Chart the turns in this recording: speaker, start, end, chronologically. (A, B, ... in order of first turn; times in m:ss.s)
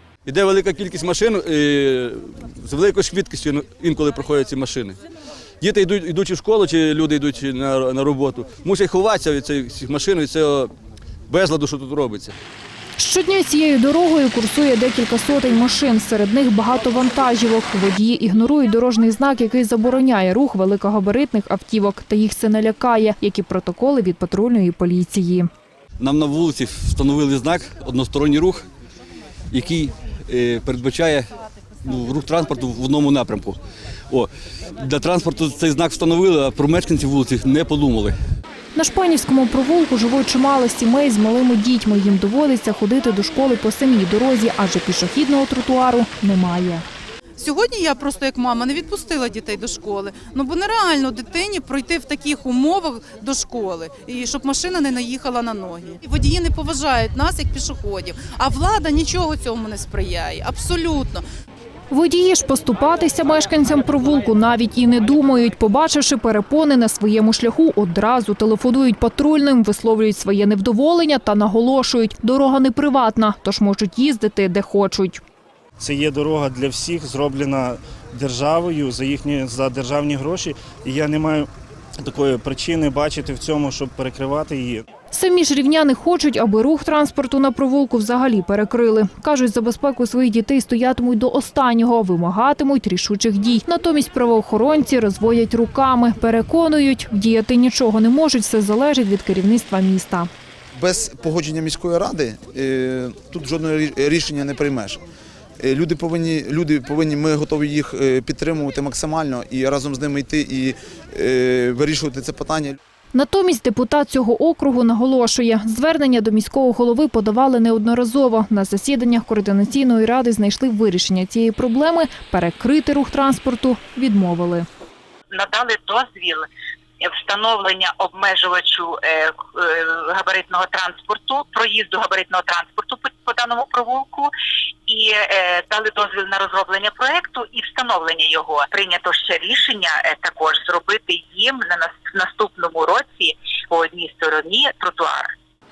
0:00.2-0:05.0 A
0:05.6-0:10.7 A
0:11.3-0:12.4 A
0:13.0-0:25.5 B
0:26.0-0:28.6 A
0:29.5-0:31.2 A
0:31.8-0:33.6 A
0:34.1-0:38.1 A
0:38.7-0:46.8 B
0:47.4-1:01.2 C
1:01.9-1:15.2 B
1:15.8-1:21.5 D
1:22.0-1:24.8 D
1:25.1-1:40.3 B
1:40.7-1:45.0 E
1:45.6-1:52.8 E
1:53.1-2:04.6 B
2:05.3-2:06.4 F
2:07.0-2:14.3 F
2:14.9-2:25.3 F